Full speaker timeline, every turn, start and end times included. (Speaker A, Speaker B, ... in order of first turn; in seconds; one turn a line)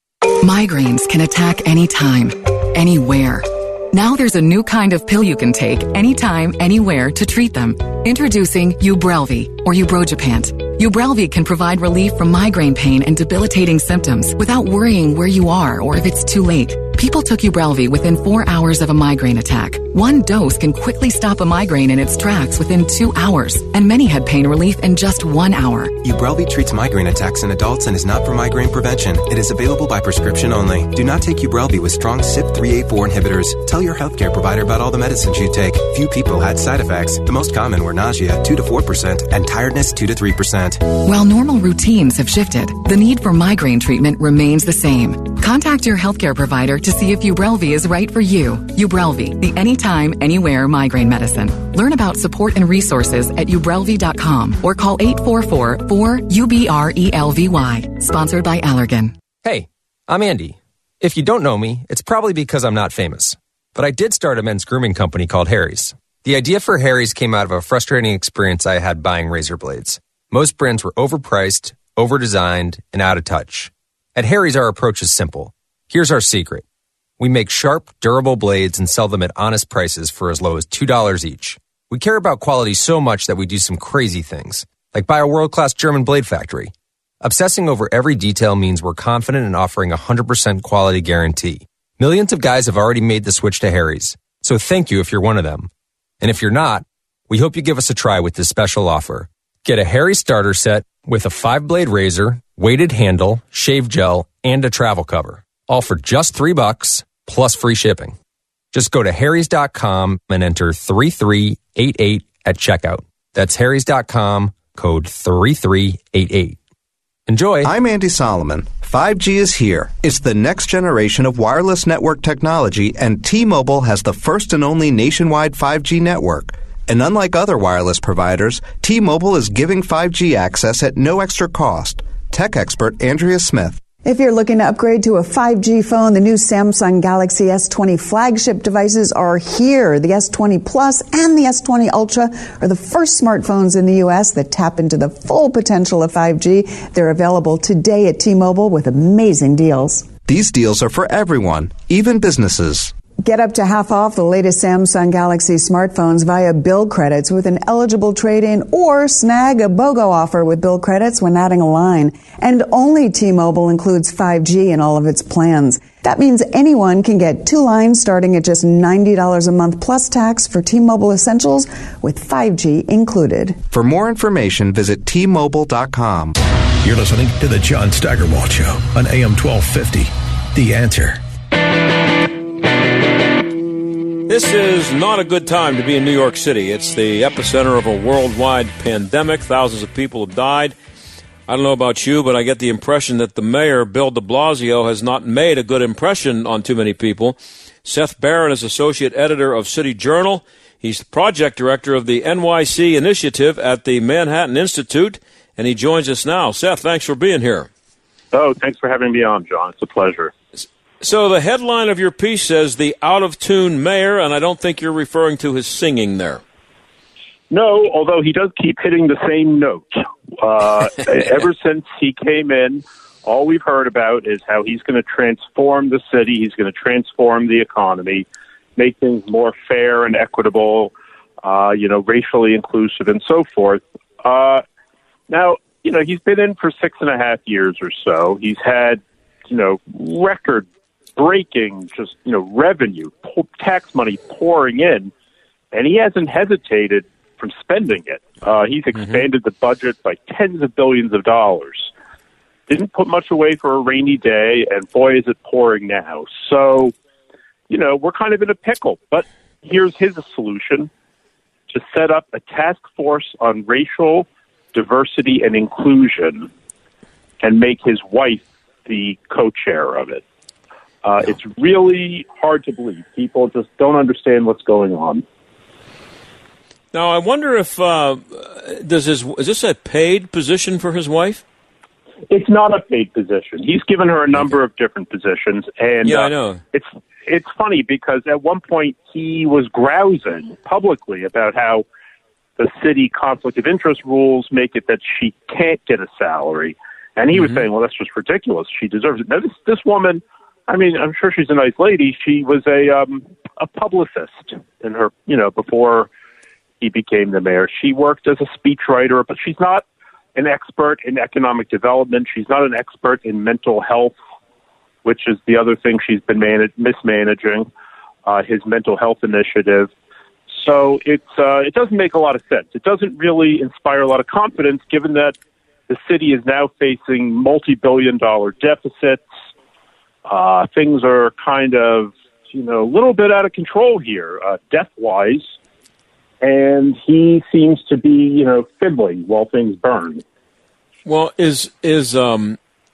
Speaker A: 0.4-26.0
Speaker B: 26.0-40.9
Speaker A: 41.0-59.1
Speaker C: 59.4-76.7
Speaker C: 77.2-95.7
Speaker C: 96.2-108.2
Speaker C: 108.7-116.6
Speaker C: 117.3-117.7
Speaker D: 117.6-133.9
Speaker E: 134.0-150.1
Speaker D: 150.3-153.0
Speaker E: 153.2-173.6
Speaker D: 173.7-176.3
Speaker F: 176.8-181.2
Speaker G: 184.3-190.8
Speaker G: 191.5-207.7
Speaker H: 208.3-210.3
Speaker G: 211.0-216.4
Speaker H: 217.5-228.3
Speaker H: 228.8-234.6
Speaker H: 235.3-245.1
Speaker H: 245.7-251.9
Speaker G: 248.9-249.3
Speaker H: 252.7-256.9
Speaker H: 257.7-260.9
Speaker H: 261.7-266.5
Speaker H: 267.4-270.2
Speaker H: 271.0-275.2
Speaker G: 276.9-281.4
Speaker H: 282.3-291.9
Speaker G: 286.0-286.6
Speaker H: 292.6-306.1
Speaker G: 297.3-297.6
Speaker H: 306.8-309.9
Speaker H: 310.4-314.1
Speaker H: 315.1-317.7
Speaker H: 318.3-319.9
Speaker H: 320.6-325.4
Speaker H: 325.9-329.2
Speaker H: 330.3-335.5
Speaker H: 336.4-340.2
Speaker G: 341.1-342.6